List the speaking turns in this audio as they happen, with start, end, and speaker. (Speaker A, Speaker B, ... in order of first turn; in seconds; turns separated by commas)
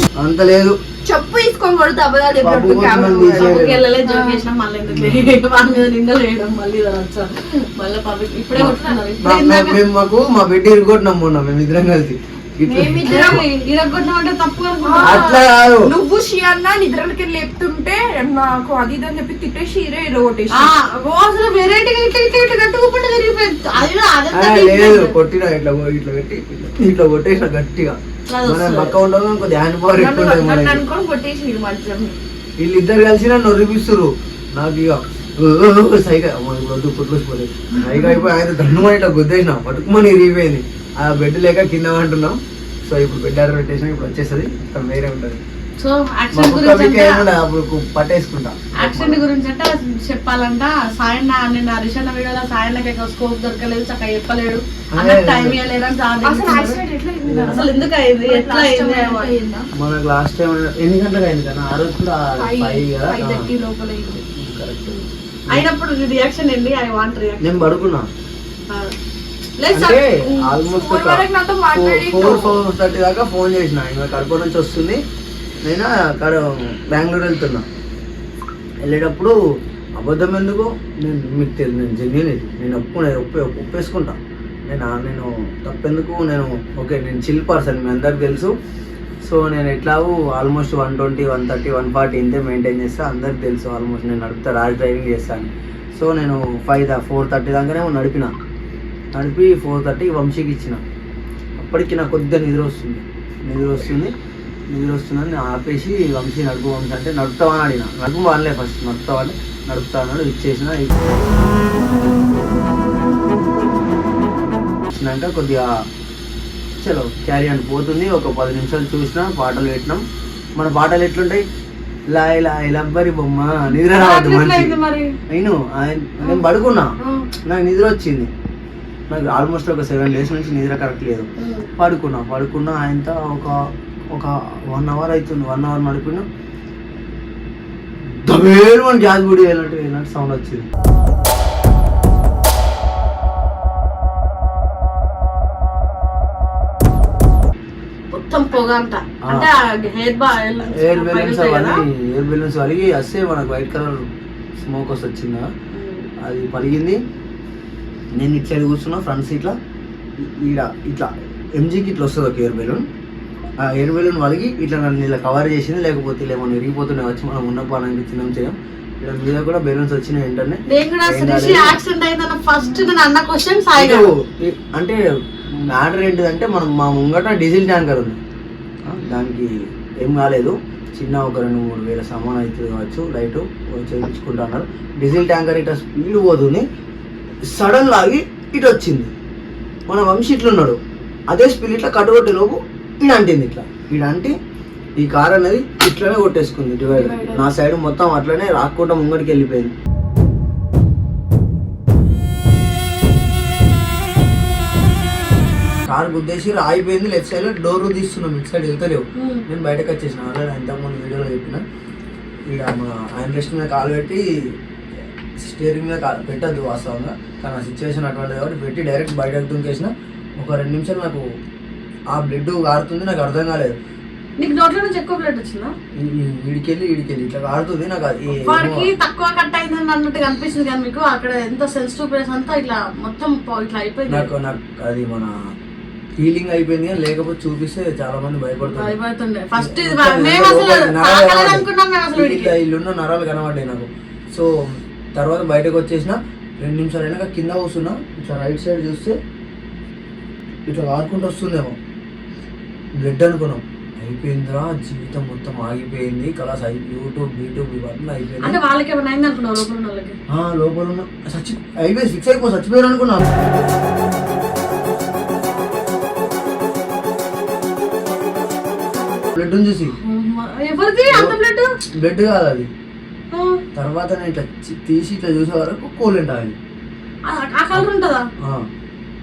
Speaker A: 0.2-0.8, Speaker B: 1.0-4.4, Speaker A: 2.4-3.8, Speaker C: 3.2-9.8, Speaker A: 4.9-5.3, Speaker A: 8.6-13.4, Speaker B: 12.7-13.4, Speaker C: 13.0-15.4, Speaker B: 14.8-20.7, Speaker A: 15.0-15.9, Speaker C: 20.5-25.1, Speaker A: 23.8-30.8, Speaker C: 28.3-28.9, Speaker C: 29.9-32.1, Speaker A: 32.6-45.4, Speaker C: 37.7-38.2, Speaker C: 45.8-47.2, Speaker A: 46.3-49.2, Speaker C: 48.8-56.8, Speaker A: 54.9-55.6, Speaker B: 56.2-59.7, Speaker A: 57.2-57.7, Speaker C: 57.4-59.4, Speaker A: 59.7-63.5, Speaker B: 62.3-64.2, Speaker A: 64.3-65.7, Speaker C: 65.5-67.6, Speaker A: 67.4-68.1, Speaker C: 68.7-68.9, Speaker C: 69.6-70.5, Speaker A: 69.7-75.0, Speaker B: 70.7-72.6, Speaker A: 75.6-77.7, Speaker A: 78.8-79.3, Speaker A: 80.0-88.5, Speaker A: 89.2-98.3, Speaker A: 99.1-100.8, Speaker A: 101.6-104.1, Speaker A: 104.7-111.0, Speaker A: 114.9-115.7, Speaker A: 116.8-120.0, Speaker A: 120.6-121.4, Speaker A: 122.1-124.8, Speaker C: 123.7-125.2, Speaker A: 125.3-126.9, Speaker C: 127.0-127.3, Speaker A: 127.5-128.3, Speaker A: 129.1-133.5, Speaker C: 131.4-131.7, Speaker A: 134.1-136.2, Speaker A: 138.1-140.7, Speaker C: 148.1-151.8, Speaker A: 149.2-149.5, Speaker A: 150.6-155.5, Speaker C: 155.7-156.1, Speaker A: 156.2-157.0, Speaker A: 158.1-159.6, Speaker A: 160.2-162.8, Speaker A: 163.6-171.8, Speaker C: 170.7-174.1, Speaker A: 173.8-175.0, Speaker A: 175.6-178.2, Speaker A: 178.8-179.5, Speaker A: 180.0-186.6, Speaker A: 187.5-189.1, Speaker A: 189.9-190.8, Speaker A: 191.3-194.3, Speaker A: 195.0-199.7, Speaker C: 196.9-197.4, Speaker A: 205.9-211.6, Speaker C: 209.2-209.4, Speaker A: 212.5-214.5, Speaker A: 215.4-221.2, Speaker A: 222.1-223.7, Speaker C: 224.4-225.7, Speaker A: 225.9-228.9, Speaker C: 228.3-234.3, Speaker A: 234.1-235.3, Speaker A: 236.2-238.9, Speaker C: 238.6-242.5, Speaker A: 239.6-244.5, Speaker A: 245.1-249.2, Speaker A: 250.7-251.8, Speaker A: 253.0-258.6, Speaker C: 258.4-260.2, Speaker A: 260.3-263.2, Speaker A: 269.3-269.9, Speaker C: 270.0-271.7, Speaker A: 271.1-271.4, Speaker A: 272.0-272.7, Speaker C: 273.3-273.6, Speaker A: 273.7-276.6, Speaker C: 277.2-278.3, Speaker A: 278.4-278.7